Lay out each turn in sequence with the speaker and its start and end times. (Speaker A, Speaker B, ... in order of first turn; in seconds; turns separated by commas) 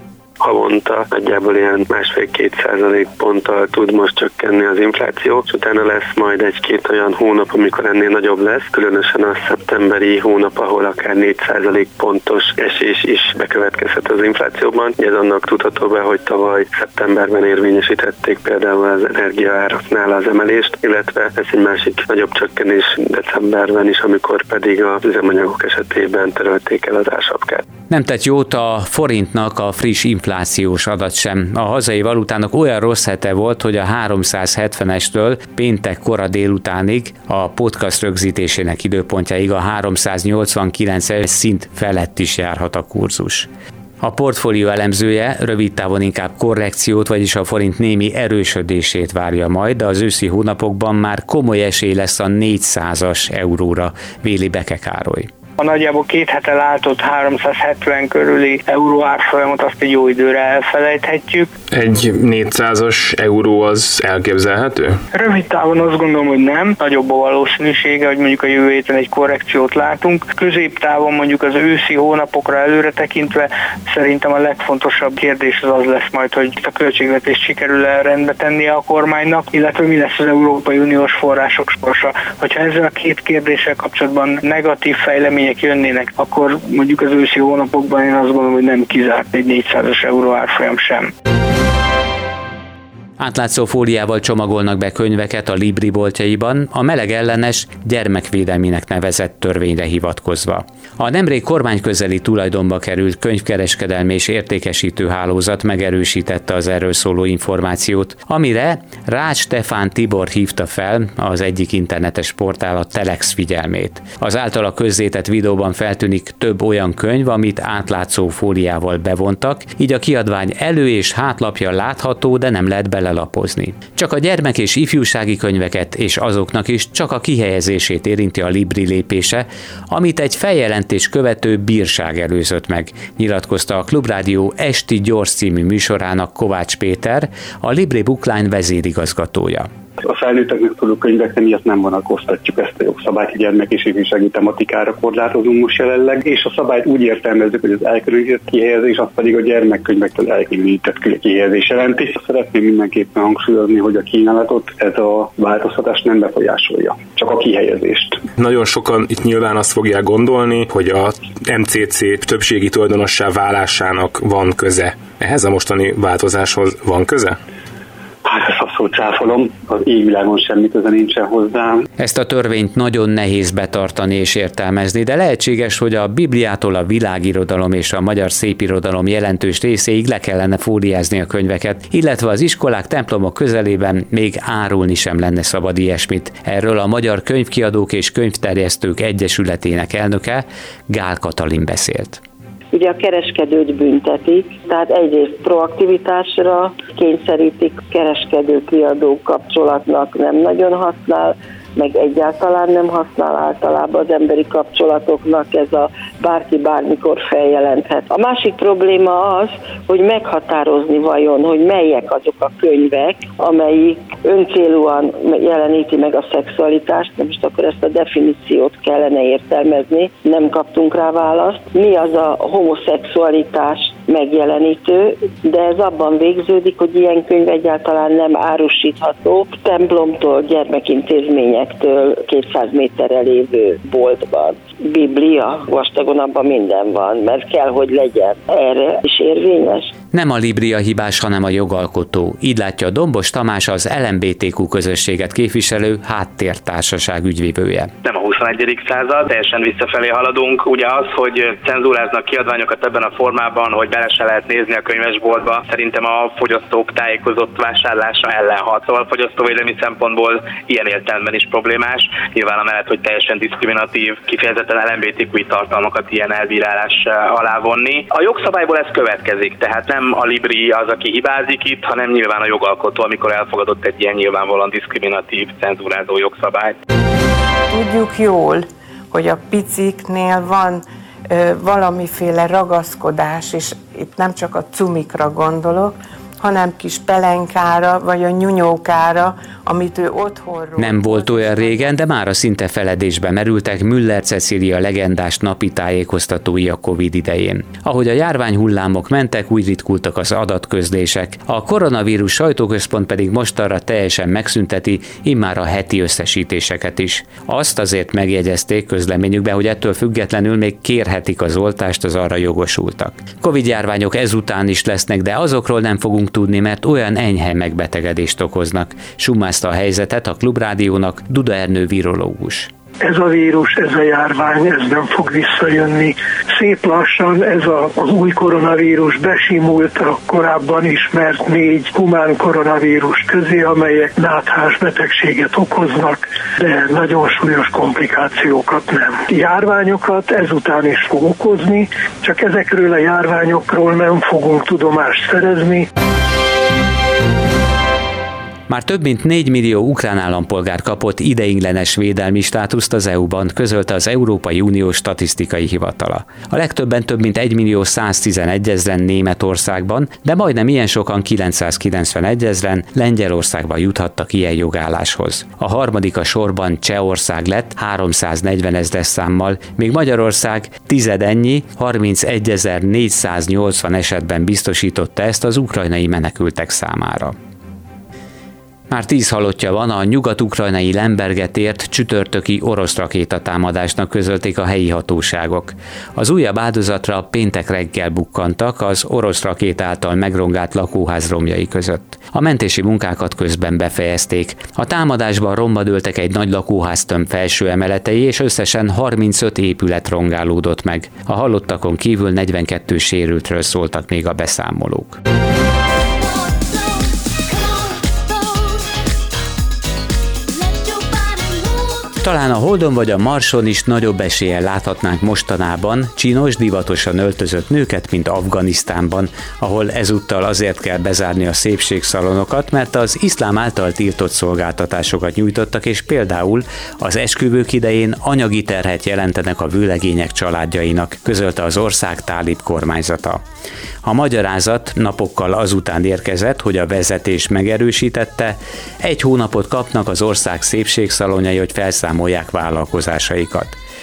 Speaker A: 0.4-27.6, Speaker B: 27.9-43.5, Speaker B: 44.0-55.3, Speaker C: 55.6-61.5, Speaker D: 61.7-65.0, Speaker C: 65.1-91.1, Speaker B: 93.2-139.7, Speaker E: 140.0-158.2, Speaker D: 158.4-167.4, Speaker E: 168.2-171.8, Speaker B: 172.0-192.2, Speaker F: 192.7-239.9, Speaker B: 240.1-247.9, Speaker G: 248.2-274.8, Speaker H: 277.7-292.0, Speaker B: 290.8-322.7, Speaker I: 323.1-345.9, Speaker B: 348.7-377.3, Speaker B: 378.9-405.2, Speaker B: 412.2-433.4, Speaker B: 434.1-443.8